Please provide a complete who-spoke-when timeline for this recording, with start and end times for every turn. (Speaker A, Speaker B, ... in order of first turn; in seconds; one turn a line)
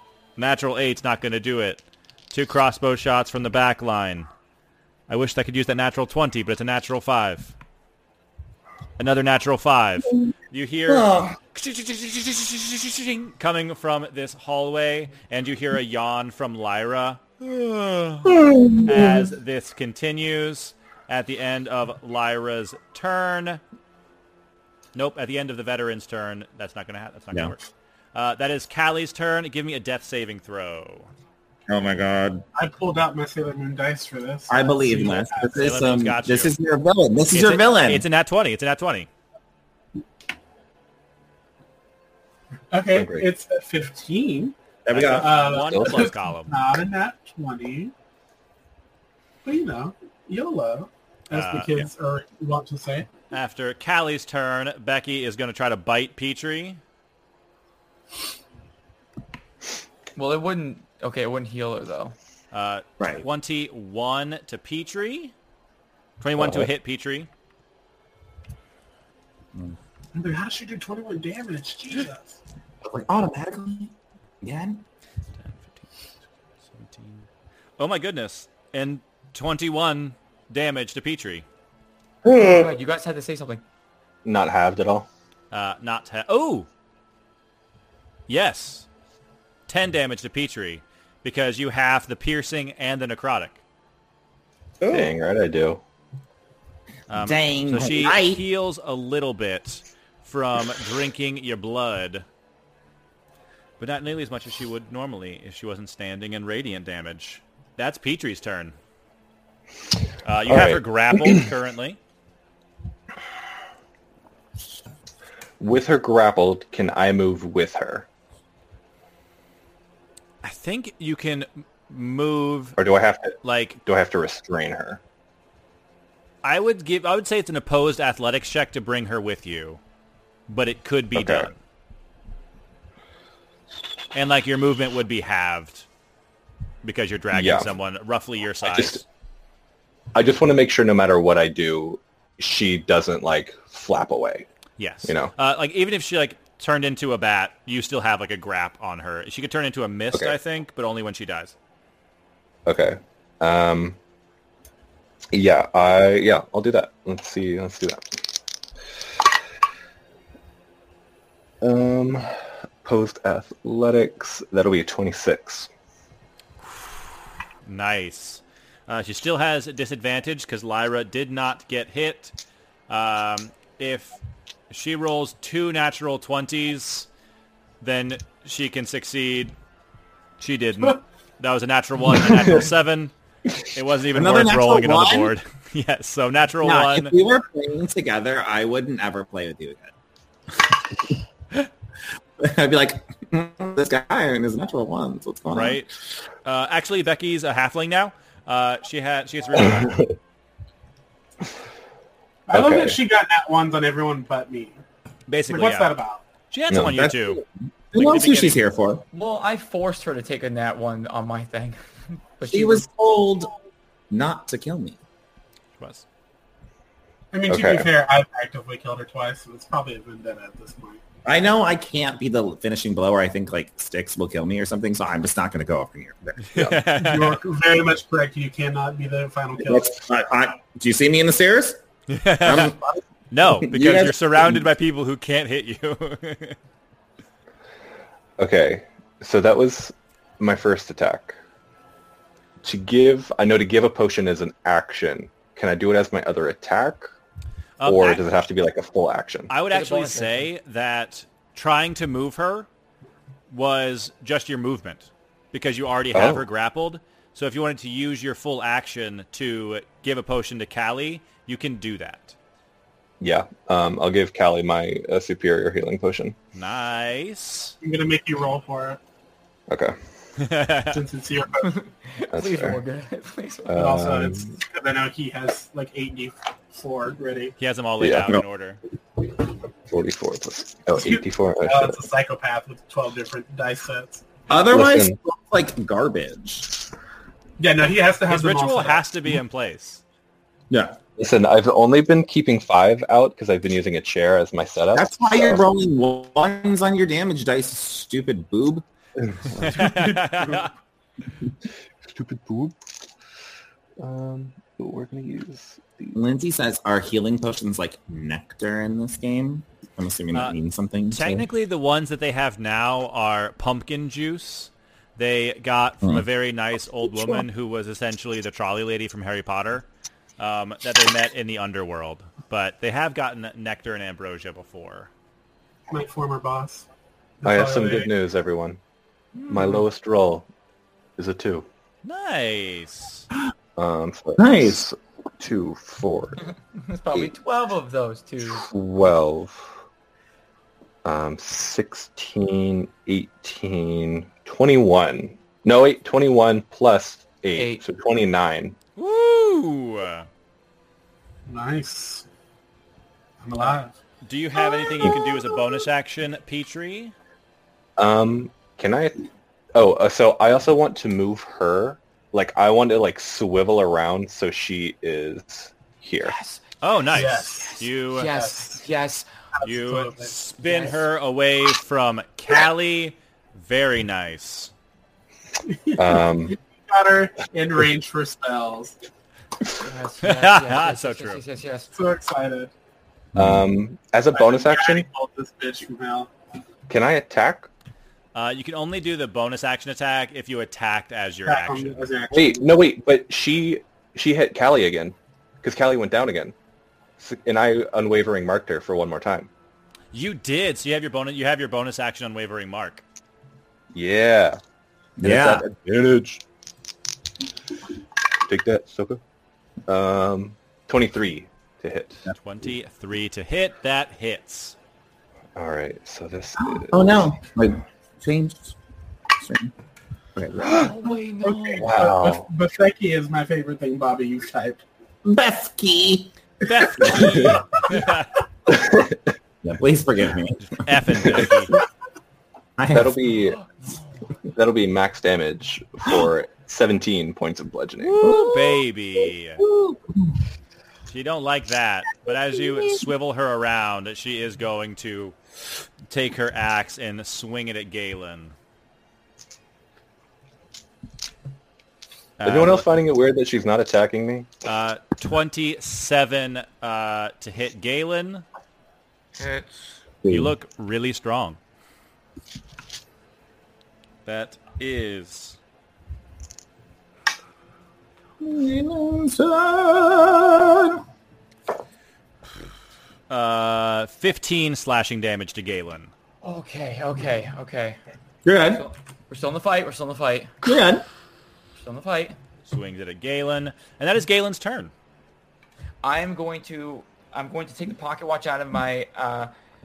Speaker A: 0.4-4.3
Speaker A: 5.1-7.5
Speaker A: 9.0-23.6
Speaker B: 10.9-11.3
Speaker B: 18.3-19.3
Speaker A: 24.9-27.6
Speaker A: 28.1-31.1
Speaker B: 31.7-32.5
Speaker C: 32.5-35.6
Speaker B: 34.5-38.1
Speaker A: 35.5-36.5
Speaker A: 37.3-39.1
Speaker C: 42.7-44.5
Speaker D: 42.9-43.3
Speaker B: 44.9-45.3
Speaker A: 44.9-46.6
Speaker C: 45.1-47.9
Speaker D: 45.6-46.1
Speaker C: 49.5-53.1
Speaker A: 51.3-51.8
Speaker A: 53.3-56.8
Speaker E: 60.2-62.2
Speaker A: 62.5-65.3
Speaker B: 63.0-63.3
Speaker A: 66.2-67.3
Speaker C: 70.1-72.4
Speaker B: 72.8-74.8
Speaker A: 75.4-75.9
Speaker A: 76.7-77.3
Speaker A: 77.8-81.5
Speaker D: 82.2-82.7
Speaker E: 82.4-83.6
Speaker D: 84.2-85.1
Speaker A: 85.5-86.7
Speaker A: 88.3-88.9
Speaker A: 89.7-93.6
Speaker B: 94.8-95.1
Speaker D: 94.9-95.8
Speaker A: 97.1-102.2
Speaker B: 97.2-98.4
Speaker A: 103.8-108.8
Speaker A: 110.2-112.0
Speaker D: 110.5-111.4
Speaker D: 115.6-118.1
Speaker A: 120.4-122.8
Speaker D: 122.8-125.0
Speaker A: 123.4-123.8
Speaker A: 126.4-129.8
Speaker A: 130.5-131.6
Speaker D: 131.1-131.5
Speaker A: 134.1-135.9
Speaker A: 136.8-139.0
Speaker D: 137.3-137.7
Speaker D: 138.6-139.0
Speaker D: 140.1-144.5
Speaker A: 144.8-151.6
Speaker D: 145.1-145.3
Speaker D: 152.7-154.0
Speaker D: 155.3-158.2
Speaker D: 161.6-162.3
Speaker D: 162.8-165.7
Speaker A: 167.7-172.3
Speaker A: 172.9-174.2
Speaker A: 174.7-177.1
Speaker A: 177.8-179.6
Speaker A: 180.4-187.1
Speaker B: 184.1-185.3
Speaker B: 186.6-189.9
Speaker B: 192.4-195.8
Speaker A: 195.5-195.9
Speaker A: 196.4-200.1
Speaker D: 199.6-200.1
Speaker C: 202.5-204.8
Speaker D: 202.5-203.0
Speaker A: 205.3-205.9
Speaker C: 205.5-206.2
Speaker A: 206.5-207.4
Speaker B: 206.8-209.0
Speaker A: 207.9-208.6
Speaker E: 209.1-211.8
Speaker E: 212.4-212.9
Speaker B: 212.5-213.5
Speaker B: 214.1-215.0
Speaker A: 215.8-216.0
Speaker C: 217.3-221.0
Speaker D: 217.5-217.9
Speaker B: 221.2-226.8
Speaker A: 226.4-227.4
Speaker C: 227.0-230.0
Speaker B: 229.6-231.8
Speaker A: 232.1-232.8
Speaker B: 232.4-234.6
Speaker A: 233.3-236.6
Speaker D: 238.4-241.4
Speaker D: 242.6-247.1
Speaker A: 247.8-248.2
Speaker D: 247.8-249.5
Speaker A: 249.5-252.7
Speaker E: 249.7-250.5
Speaker A: 253.5-262.4
Speaker D: 256.1-256.5
Speaker D: 263.2-266.4
Speaker A: 266.5-267.8
Speaker C: 267.8-269.0
Speaker D: 269.7-270.0
Speaker A: 270.4-271.0
Speaker C: 270.9-271.8
Speaker E: 271.6-273.9
Speaker D: 272.3-272.8
Speaker D: 273.7-274.6
Speaker C: 273.8-277.6
Speaker A: 277.6-278.8
Speaker D: 278.0-278.4
Speaker D: 279.9-282.0
Speaker C: 281.0-284.3
Speaker B: 284.5-286.8
Speaker D: 284.6-285.1
Speaker C: 287.6-289.0
Speaker A: 288.3-290.0
Speaker B: 290.7-291.0
Speaker D: 291.2-295.6
Speaker B: 294.9-298.9
Speaker D: 299.2-300.2
Speaker A: 299.6-300.7
Speaker C: 300.3-300.6
Speaker D: 302.0-302.8
Speaker D: 304.0-306.2
Speaker B: 306.1-311.5
Speaker A: 311.1-319.9
Speaker A: 320.4-325.1
Speaker C: 325.9-326.9
Speaker C: 327.4-328.1
Speaker D: 327.4-328.8
Speaker D: 329.5-330.5
Speaker D: 331.2-331.7
Speaker A: 332.0-333.3
Speaker D: 333.8-336.4
Speaker B: 334.4-334.9
Speaker E: 336.4-338.7
Speaker D: 338.5-339.7
Speaker D: 341.1-348.8
Speaker E: 347.6-347.8
Speaker A: 349.0-350.3
Speaker C: 351.5-352.3
Speaker C: 353.4-353.9
Speaker A: 354.2-357.1
Speaker D: 358.0-366.3
Speaker E: 366.2-366.6
Speaker A: 366.8-368.5
Speaker C: 367.1-368.8
Speaker E: 367.2-369.3
Speaker C: 369.6-370.3
Speaker A: 369.6-374.7
Speaker E: 370.6-371.0
Speaker C: 375.6-378.9
Speaker D: 376.0-376.6
Speaker E: 379.8-381.9
Speaker A: 380.2-381.4
Speaker C: 381.9-382.7
Speaker D: 383.4-385.1
Speaker C: 384.3-386.3
Speaker D: 386.9-387.7
Speaker A: 388.3-392.1
Speaker C: 391.5-392.7
Speaker D: 392.3-396.5
Speaker D: 397.2-399.5
Speaker A: 400.1-403.0
Speaker D: 403.9-404.6
Speaker B: 405.2-405.6
Speaker D: 405.2-406.4
Speaker D: 408.5-409.2
Speaker D: 409.9-412.3
Speaker A: 412.3-414.8
Speaker D: 415.6-417.3
Speaker B: 416.6-418.8
Speaker B: 419.3-419.7
Speaker B: 420.4-420.9
Speaker E: 420.6-422.0
Speaker C: 421.4-424.8
Speaker D: 421.8-422.5
Speaker B: 425.2-427.6
Speaker A: 426.7-428.4
Speaker D: 427.2-427.6
Speaker D: 428.7-429.2
Speaker B: 429.6-431.6
Speaker A: 430.8-431.8
Speaker B: 432.8-433.2
Speaker D: 432.9-433.6
Speaker E: 433.4-434.2
Speaker D: 434.5-438.3
Speaker B: 438.2-438.9
Speaker A: 438.2-439.6
Speaker B: 439.6-440.4
Speaker A: 441.1-445.4
Speaker A: 446.1-448.6
Speaker A: 452.4-452.9
Speaker D: 452.4-454.5
Speaker A: 454.7-458.4
Speaker E: 459.4-459.9
Speaker B: 460.2-460.5
Speaker A: 460.3-461.6
Speaker A: 464.3-465.6
Speaker B: 468.4-471.1
Speaker A: 473.3-476.1
Speaker E: 476.4-478.0
Speaker B: 478.4-478.9
Speaker E: 478.6-480.6
Speaker B: 480.6-481.1
Speaker E: 481.8-482.4
Speaker A: 482.7-484.9
Speaker E: 486.0-489.5